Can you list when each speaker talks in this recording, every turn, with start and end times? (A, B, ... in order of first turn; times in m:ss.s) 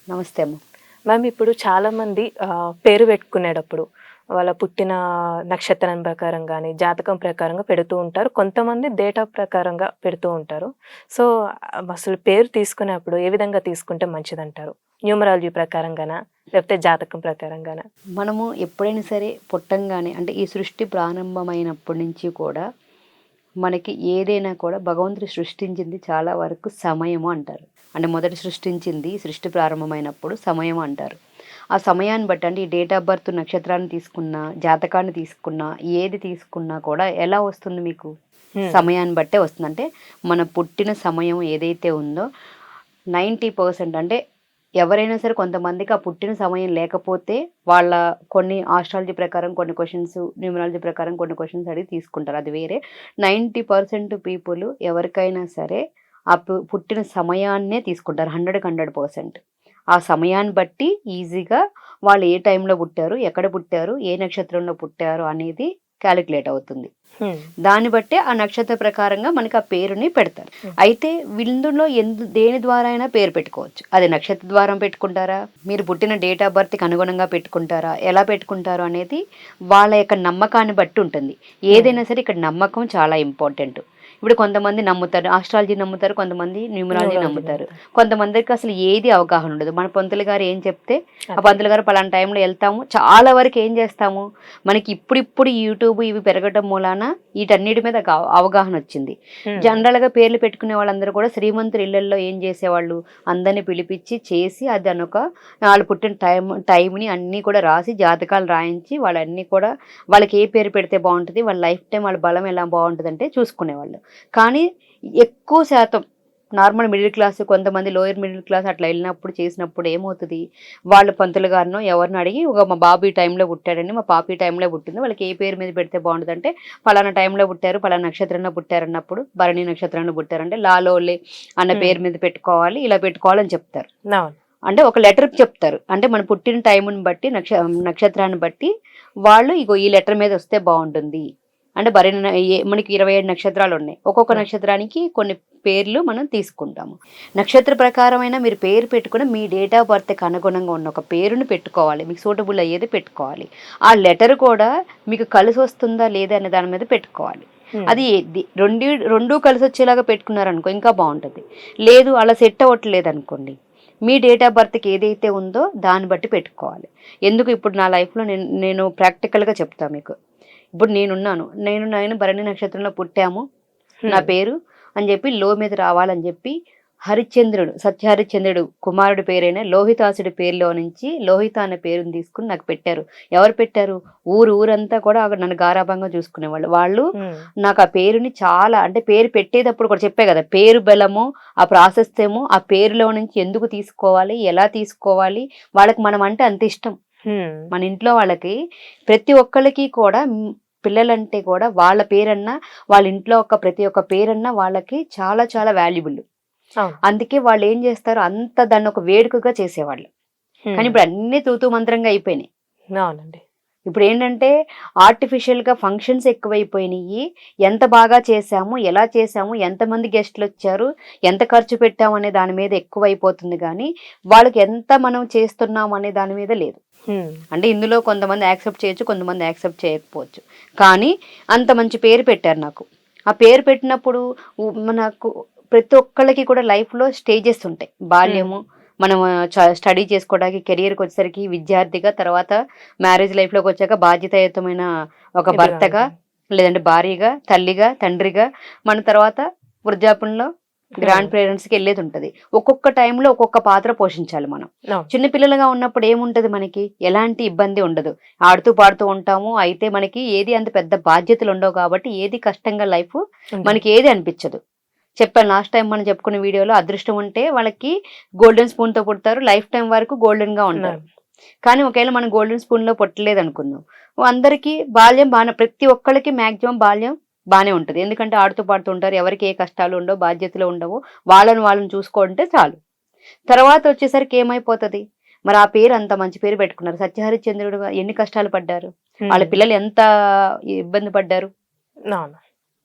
0:00.1-0:00.6 A
0:01.1-0:03.8 B
0:04.4-0:05.0 B
0:05.5-0:11.3 B
0:11.9-0:17.8 B
0:18.2-0:22.6 A
0:23.6-0:31.2 A
0:31.8-0:38.1 A
0:38.7-0:42.2 A
0:43.2-0:44.2 A
0:44.8-0:55.8 A
0:56.3-0:59.4 A
1:00.0-1:06.9 A
1:07.7-1:19.2 A
1:19.7-1:54.6 A
1:27.0-1:27.7 B
1:55.2-1:56.0 A
1:56.6-2:00.4 A
2:00.9-2:13.9 A
2:11.7-2:12.0 B
2:14.7-2:18.7 A
2:19.3-2:21.2 A
2:21.8-2:43.6 A
2:44.1-2:50.1 A
2:50.8-2:53.4 A
2:54.1-2:56.6 A
2:57.1-3:07.0 A
3:07.2-3:07.5 B
3:07.6-3:17.0 A
3:17.3-3:17.6 B
3:17.7-3:18.6 A
3:19.1-3:20.2 A
3:20.8-3:26.2 A
3:27.1-3:30.1 A
3:30.7-3:31.0 B
3:30.8-3:32.5 A
3:33.0-3:33.4 B
3:33.9-3:34.5 A
3:35.0-3:46.8 A
3:47.1-3:47.4 B
3:47.5-3:54.2 A
3:54.9-4:04.9 A
3:58.3-3:58.5 B
4:05.4-4:10.5 A
4:05.5-4:06.1 B
4:11.0-4:11.3 B
4:11.0-4:24.6 A
4:25.2-4:31.0 A
4:30.8-4:31.0 B
4:31.7-4:42.8 A
4:43.5-4:50.0 A
4:49.2-4:49.6 B
4:50.8-4:51.5 A
4:52.1-4:52.4 B